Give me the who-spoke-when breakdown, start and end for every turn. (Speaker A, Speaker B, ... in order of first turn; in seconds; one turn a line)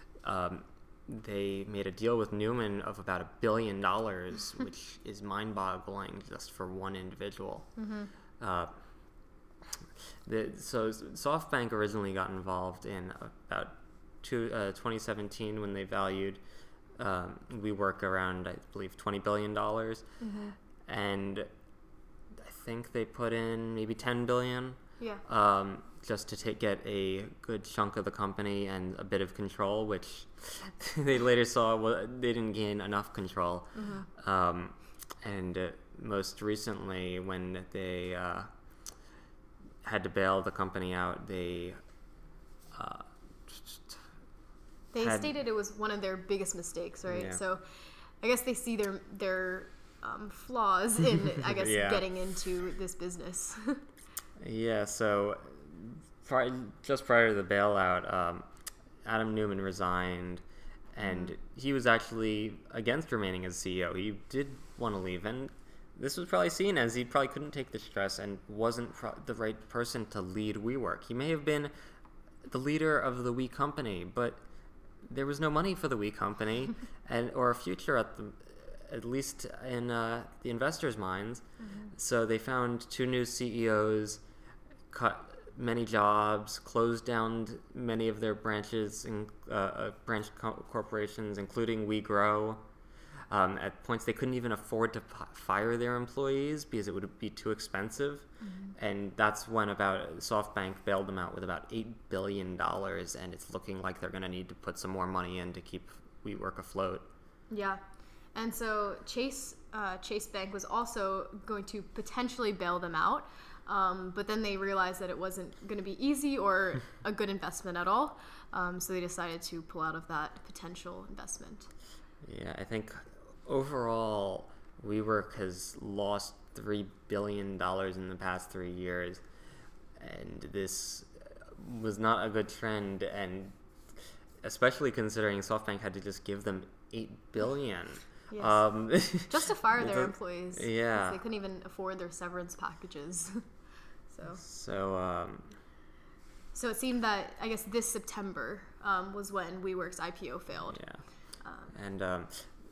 Speaker A: 0.2-7.7
Speaker B: 7.8-8.1
Speaker A: 8.4-8.7
Speaker A: 10.2-16.4
Speaker A: 17.0-20.1
Speaker B: 20.2-20.6
Speaker A: 20.9-21.5
Speaker A: 22.4-38.5
Speaker B: 33.7-34.1
Speaker A: 39.8-41.8
Speaker A: 42.7-44.0
Speaker B: 44.9-47.6
Speaker A: 45.0-45.3
Speaker A: 47.1-47.4
Speaker B: 48.2-53.8
Speaker A: 51.5-52.0
Speaker A: 54.4-58.4
Speaker A: 59.0-60.4
Speaker A: 60.9-71.7
Speaker B: 61.0-61.3
Speaker A: 72.5-74.4
Speaker A: 75.0-84.2
Speaker B: 81.6-81.9
Speaker A: 84.9-92.6
Speaker A: 93.3-107.1
Speaker B: 98.4-98.7
Speaker B: 107.5-107.8
Speaker B: 108.3-121.7
Speaker A: 122.2-129.2
Speaker A: 130.0-133.6
Speaker A: 134.4-141.2
Speaker B: 138.3-143.4
Speaker B: 144.1-144.4
Speaker A: 144.4-145.5
Speaker B: 146.5-150.8
Speaker A: 150.7-151.0
Speaker B: 151.4-151.7
Speaker A: 151.7-152.5